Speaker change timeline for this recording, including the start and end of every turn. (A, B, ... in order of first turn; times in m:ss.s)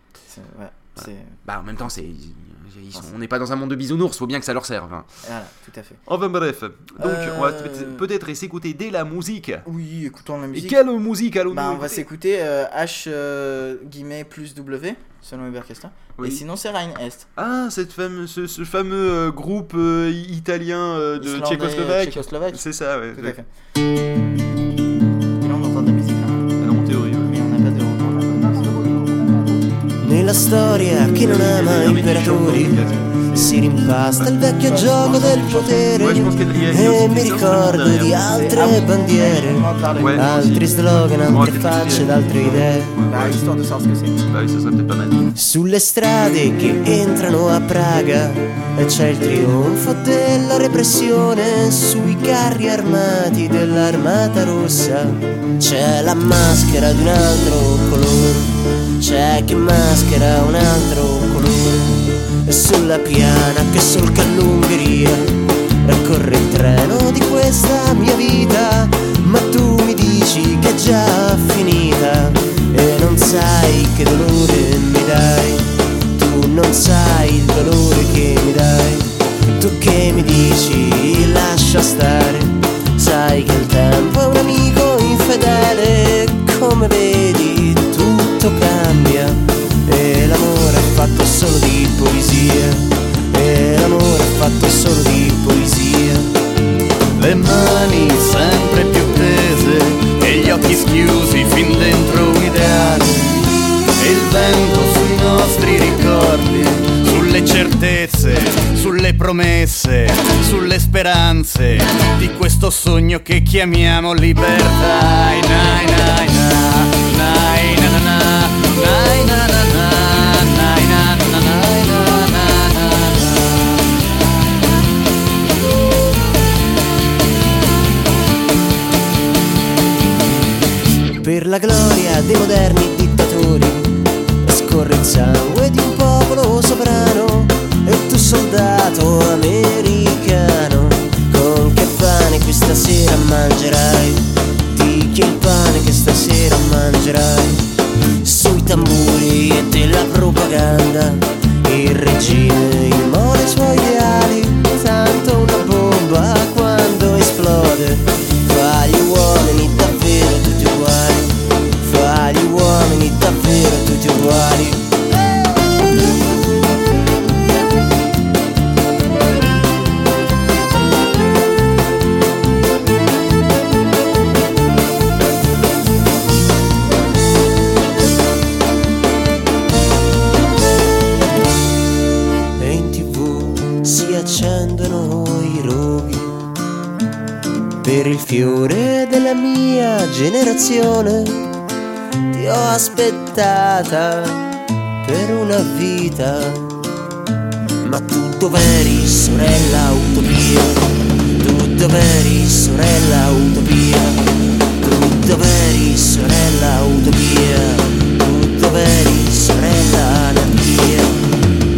0:00.3-0:01.4 A
0:01.4-0:05.1 B
0:05.2-0:06.0 A
0:06.0-0:09.6 B
0:07.0-0:08.0 A
0:09.6-0:10.8 A
0:10.5-0:12.0 B
0:11.5-0:17.3 A
0:16.2-0:16.4 B
0:17.4-0:23.4 B
0:21.2-0:23.5 A
0:25.4-0:26.6 A
0:26.6-0:27.4 B
0:27.2-0:29.1 A
0:30.0-0:42.9 C
0:31.1-0:33.6 B
0:34.7-0:35.8 A
0:35.9-0:38.2 B
0:38.2-0:40.8 A
0:40.0-0:40.3 B
0:41.2-0:43.4 B
0:43.0-0:44.3 A
0:44.3-0:45.3 B
0:45.3-1:36.3 C
1:37.1-2:04.0 D
2:11.2-2:27.7 C
2:28.2-2:44.8 C
3:02.6-3:06.4 C
3:07.8-3:11.5 C
3:12.3-3:14.4 C
3:15.0-3:16.7 C
3:17.8-3:31.3 C